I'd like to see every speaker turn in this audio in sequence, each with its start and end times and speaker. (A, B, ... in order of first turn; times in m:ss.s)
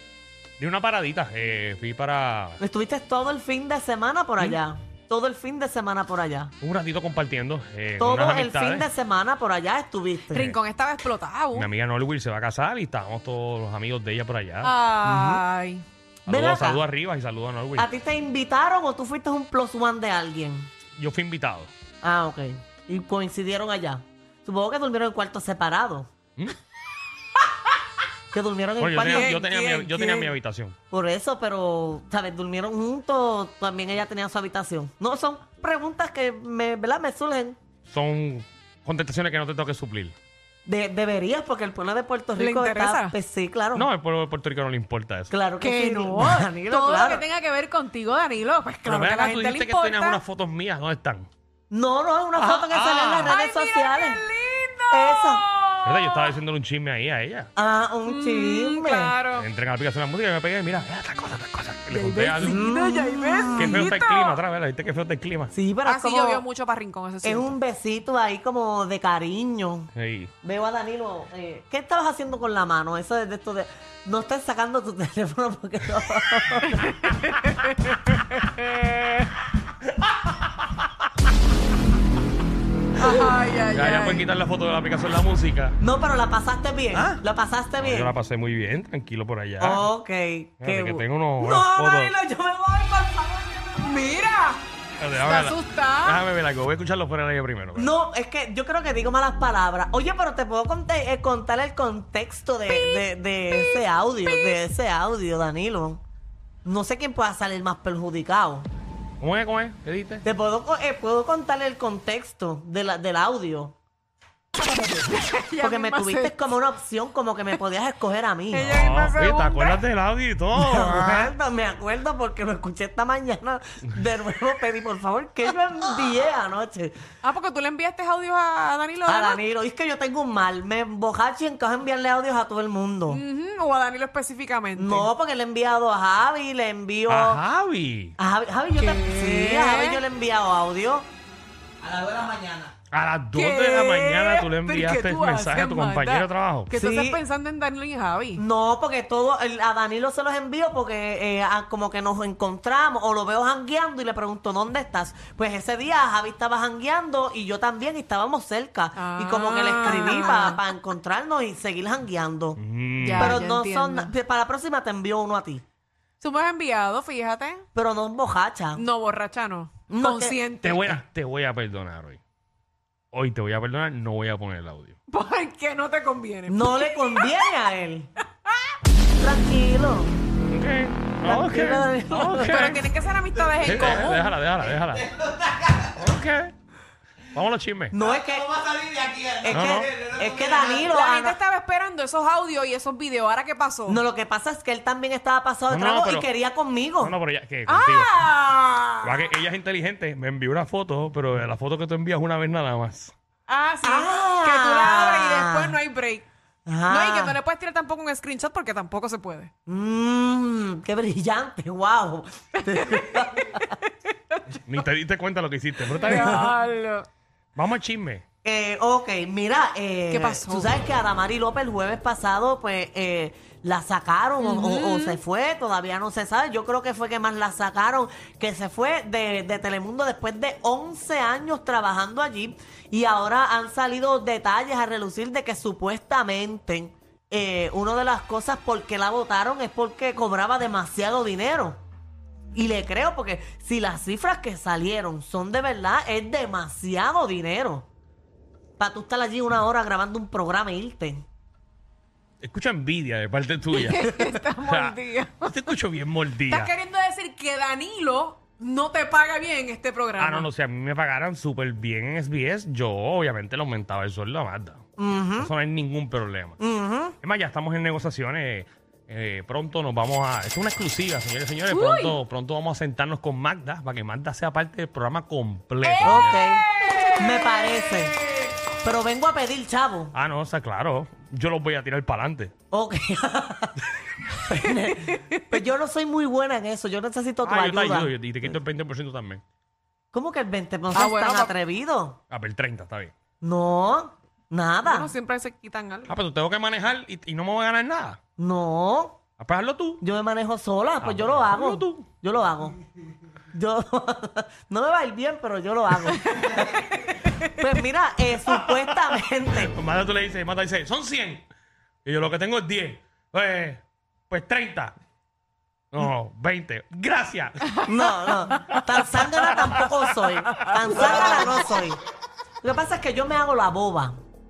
0:00.6-0:02.6 A
0:02.6-0:06.5 B
0:06.6-0:08.9 A
0:08.0-0:10.4 B
0:10.3-0:11.7 C
0:11.5-0:14.7 A
0:14.6-0:15.8 C
0:15.0-0:15.4 B
0:16.3-0:17.9 A
0:16.3-0:16.8 B
0:17.8-0:20.7 B
0:21.0-0:21.7 A
0:22.0-0:26.1 B
0:28.3-0:29.5 B
0:28.8-0:30.8 A
0:29.0-0:30.3 C
0:30.9-0:37.6 B
0:37.9-0:40.2 A
0:40.7-0:43.9 B
0:42.4-0:43.2 C
0:43.8-0:45.3 A
0:45.3-0:47.2 B
0:45.6-0:50.2 C
0:48.8-0:51.3 A
0:51.7-0:54.2 B
0:52.4-0:53.4 A
0:53.2-0:56.4 C
0:54.9-0:55.4 B
0:55.8-0:57.5 A
0:57.6-0:59.1 B
0:58.1-0:59.5 C
0:59.3-1:02.6 A
1:01.9-1:04.4 C
1:02.4-1:03.9 B
1:03.6-1:05.5 A
1:05.5-1:06.4 B
1:05.8-1:07.6 C
1:07.2-1:09.9 B
1:09.9-1:10.3 A
1:10.4-1:17.0 B
1:17.0-1:19.3 C
1:20.0-1:20.4 A
1:23.0-1:24.3 C
1:23.7-1:25.8 A
1:25.8-1:28.1 B
1:26.9-1:27.2 A
1:27.8-1:29.9 A
1:29.6-1:34.0 B
1:30.6-1:32.1 A
1:33.8-1:34.6 C
1:35.0-1:37.9 A
1:35.2-1:36.2 C
1:37.8-1:46.0 B
1:46.6-1:48.7 B
1:49.2-1:50.2 A
1:50.2-1:53.8 B
1:54.9-1:56.5 C
1:55.6-1:58.8 B
1:58.5-1:59.8 C
1:58.7-2:01.3 A
2:00.6-2:07.0 B
2:07.2-2:09.4 C
2:09.1-2:13.2 B
2:13.1-2:15.1 C
2:14.8-2:17.4 B
2:17.1-2:18.2 A
2:18.2-2:21.1 B
2:18.8-2:20.0 C
2:22.9-2:26.7 A
2:23.3-2:28.4 C
2:26.7-2:27.2 B
2:28.4-2:42.6 B
2:39.0-2:40.7 C
2:42.6-2:43.4 A
2:43.0-2:44.1 C
2:43.2-2:45.6 B
2:46.2-2:47.6 C
2:47.8-2:48.8 B
2:48.8-2:51.0 C
2:49.9-2:50.4 B
2:50.6-2:52.2 A
2:53.1-2:55.0 A
2:55.1-2:57.3 C
2:56.5-2:58.1 B
2:59.2-3:00.1 B
3:00.5-3:02.9 A
3:01.2-3:02.6 B
3:02.4-3:04.3 C
3:03.6-3:05.1 A
3:05.9-3:06.5 A
3:07.3-3:08.0 A
3:07.9-3:11.4 B
3:09.5-3:10.0 A
3:10.8-3:14.0 C
3:13.9-3:17.2 B
3:15.7-3:16.3 A
3:17.0-3:18.1 A
3:17.7-3:19.3 C
3:19.0-3:23.1 A
3:23.5-3:26.3 C
3:23.8-3:25.8 B
3:26.7-3:27.4 B
3:26.9-3:29.5 C
3:29.7-3:33.7 B
3:32.6-3:33.3 C
3:34.3-3:34.8 C
3:34.7-3:36.5 A
3:35.9-3:37.1 C
3:36.1-3:36.4 B
3:37.6-3:38.2 A
3:38.4-4:01.8 B
3:40.1-3:40.7 C
3:44.4-3:45.2 C
4:02.5-4:07.9 B
4:08.8-4:11.2 B
4:12.4-4:16.7 A
4:13.7-4:15.7 C
4:16.4-4:20.5 C
4:20.2-4:24.8 A
4:25.0-4:25.5 B
4:25.4-4:26.6 A
4:26.6-4:27.2 B
4:27.2-4:36.4 A
4:31.7-4:32.2 C
4:35.8-4:37.8 C
4:36.0-4:36.6 B
4:37.2-4:38.2 B
4:38.8-4:40.1 B
4:40.1-4:42.5 A
4:42.7-4:48.1 B
4:47.4-4:49.4 A
4:50.1-4:52.2 B
4:50.9-4:51.5 C
4:52.3-4:53.1 A
4:53.4-4:55.1 B
4:54.8-4:56.1 C
4:56.1-4:58.2 A
4:58.4-4:59.2 B
4:59.4-5:00.0 A
5:00.0-5:02.8 B
5:01.0-5:02.1 A
5:03.5-5:06.8 B
5:06.3-5:07.5 C
5:07.4-5:09.7 B
5:08.4-5:11.4 A
5:12.0-5:14.9 A
5:15.9-5:17.6 A
5:17.8-5:22.0 B
5:19.4-5:19.8 A
5:20.6-5:21.6 C
5:21.0-5:21.5 A
5:22.6-5:24.2 B